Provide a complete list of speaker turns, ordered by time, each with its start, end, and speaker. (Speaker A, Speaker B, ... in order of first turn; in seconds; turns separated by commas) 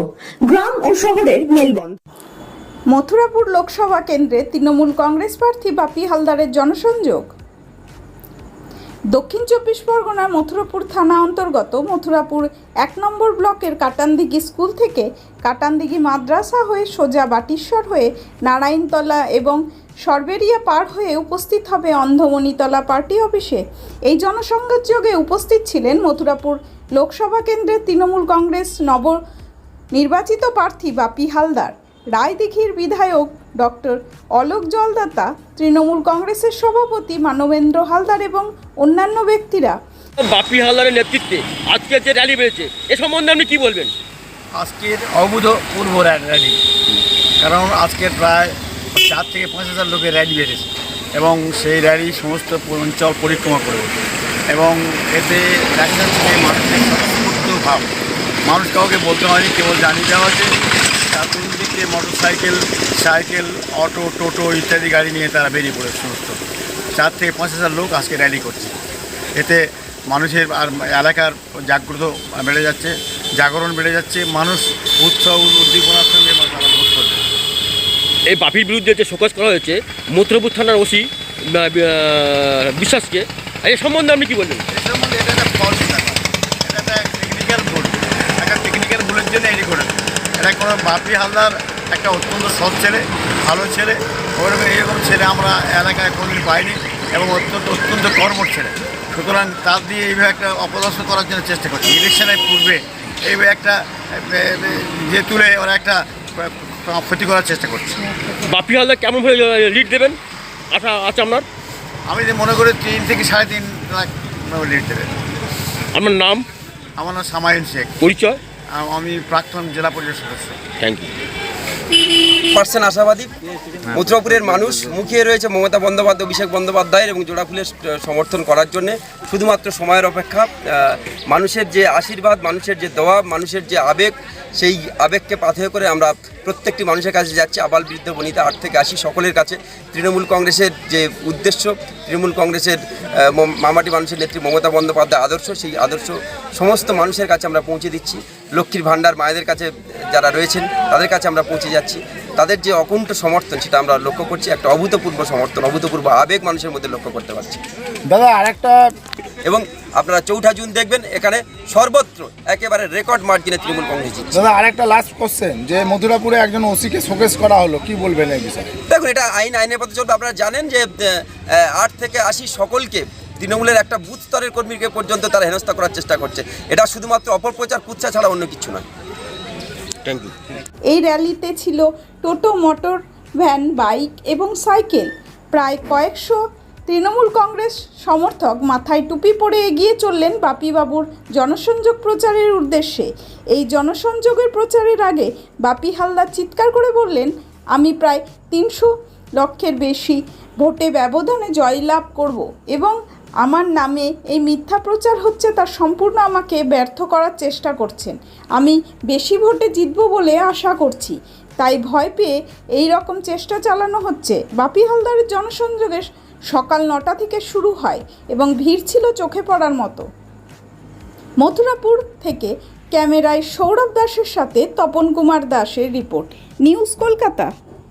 Speaker A: 2.9-7.3, Speaker A: 9.1-29.2, Speaker A: 29.9-39.8, Speaker B: 40.2-43.9, Speaker C: 44.5-46.6, Speaker C: 47.4-53.9, Speaker C: 54.5-57.9, Speaker C: 58.5-60.5, Speaker C: 61.1-66.4, Speaker C: 66.9-68.8, Speaker C: 69.3-77.2, Speaker B: 78.3-84.6, Speaker C: 84.7-108.2, Speaker B: 108.3-110.2, Speaker B: 110.7-111.4, Speaker C: 112.1-115.1, Speaker B: 115.9-116.4, Speaker C: 117.0-117.9, Speaker B: 118.0-118.4, Speaker C: 118.7-120.6, Speaker B: 120.8-121.1, Speaker D: 122.5-123.3, Speaker D: 123.9-157.6, Speaker E: 158.1-158.8, Speaker D: 159.4-164.3, Speaker E: 164.3-168.7, Speaker D: 168.9-178.8, Speaker B: 180.0-180.3, Speaker A: 180.9-220.0, Speaker A: 221.4-227.5